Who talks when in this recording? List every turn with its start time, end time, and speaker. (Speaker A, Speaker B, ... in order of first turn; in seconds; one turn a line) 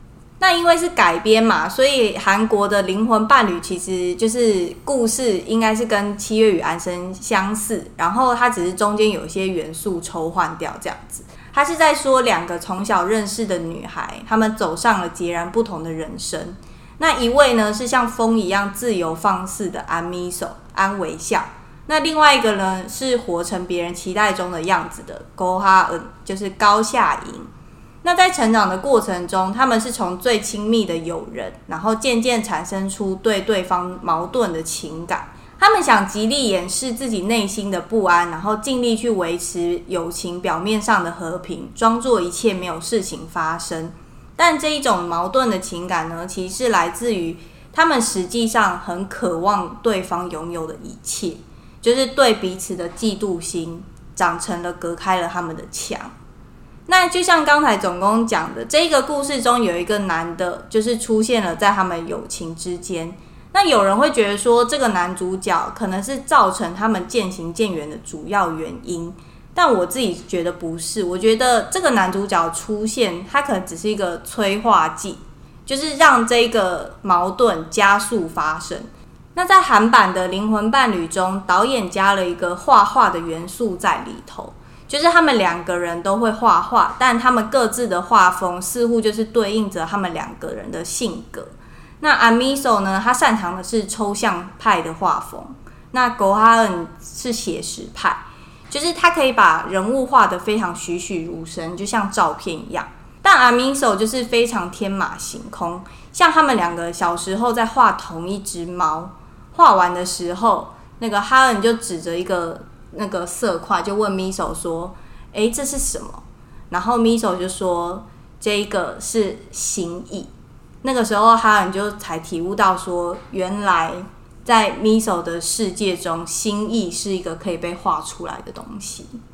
Speaker A: 0.4-27.5
Speaker A: 28.0-56.1
Speaker A: 56.9-120.3
Speaker A: 120.8-129.1